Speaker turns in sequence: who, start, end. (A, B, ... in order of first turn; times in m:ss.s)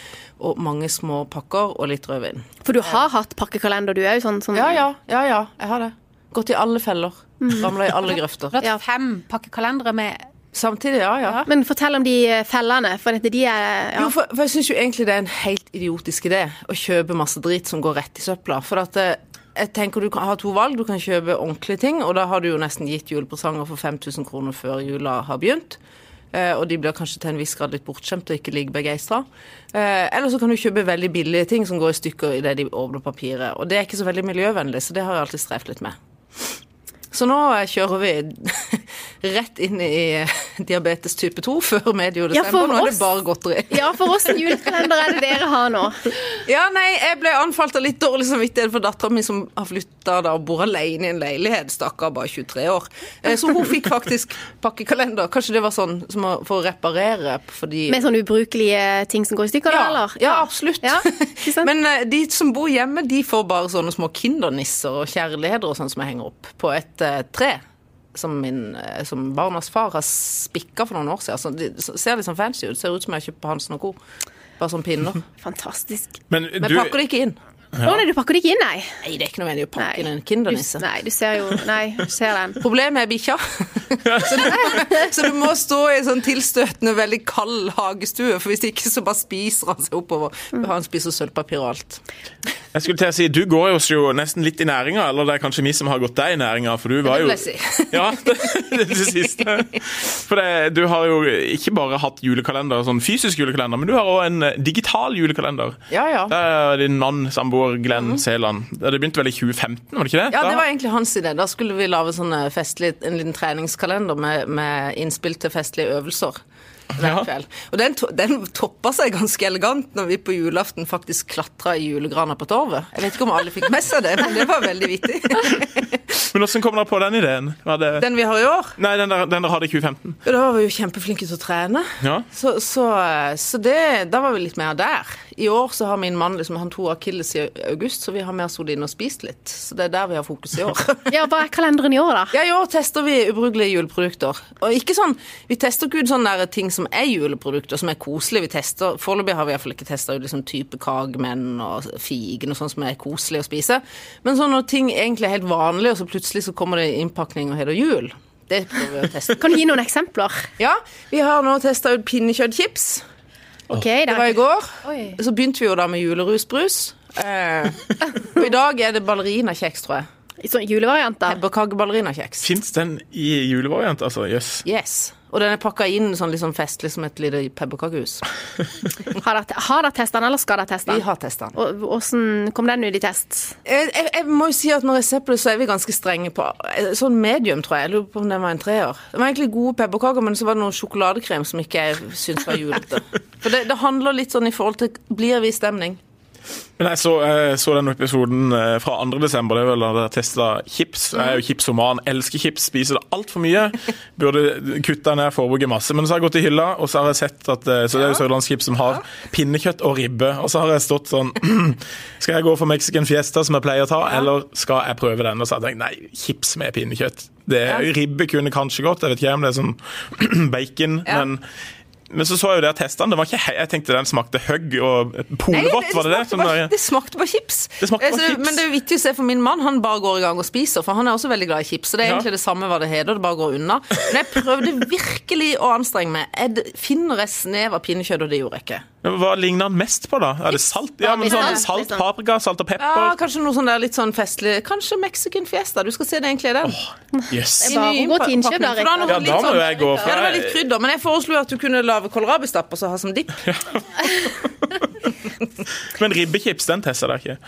0:00.4-0:02.4 A
0:02.6-0:04.8 B
0:04.5-0:08.6 A
0:08.5-0:10.2 C
0:10.5-0:11.4 A
0:11.4-0:14.1 B
0:14.0-0:25.8 A
0:26.3-0:35.9 A
0:37.1-0:44.5 A
0:42.3-0:43.0 B
0:43.7-0:46.1 B
0:46.4-0:58.0 A
0:57.9-1:01.7 B
0:59.7-1:07.6 A
1:08.1-1:14.0 A
1:14.6-1:15.2 A
1:15.4-1:16.2 B
1:16.3-1:17.0 D
1:16.6-1:17.4 A
1:17.7-1:18.0 D
1:17.8-1:19.0 B
1:19.0-1:20.8 A
1:19.8-1:22.6 B
1:22.6-1:32.0 A
1:24.1-1:24.5 D
1:32.7-1:45.8 D
1:37.0-1:38.1 A
1:45.9-1:46.3 A
1:46.3-1:50.6 D
1:47.9-1:48.2 A
1:50.3-1:56.4 A
1:57.0-1:57.3 D
1:57.0-2:06.0 A
2:06.3-2:08.0 D
2:08.0-2:08.8 A
2:08.8-2:10.2 D
2:10.2-2:21.2 A
2:12.0-2:12.2 D
2:21.1-2:22.3 B
2:22.3-2:39.6 A
2:39.4-2:40.4 B
2:40.6-2:43.0 A
2:43.7-2:44.4 B
2:44.0-2:50.0 A
2:44.8-2:45.2 C
2:50.4-2:51.4 B
2:51.3-2:52.5 A
2:52.4-2:54.6 D
2:54.6-2:58.3 A
2:59.1-3:01.0 B
3:00.9-3:01.6 A
3:01.5-3:03.6 B
3:03.6-3:16.0 A
3:16.8-3:41.4 D
3:27.9-3:28.2 A
3:42.1-3:46.7 D
3:45.5-3:58.8 A
3:47.8-3:48.6 D
3:59.0-4:03.2 D
4:01.0-4:02.0 B
4:02.8-4:06.8 A
4:06.6-4:07.8 D
4:07.1-4:09.6 B
4:07.6-4:13.4 A
4:09.0-4:10.6 D
4:13.4-4:14.9 D
4:15.8-4:17.4 D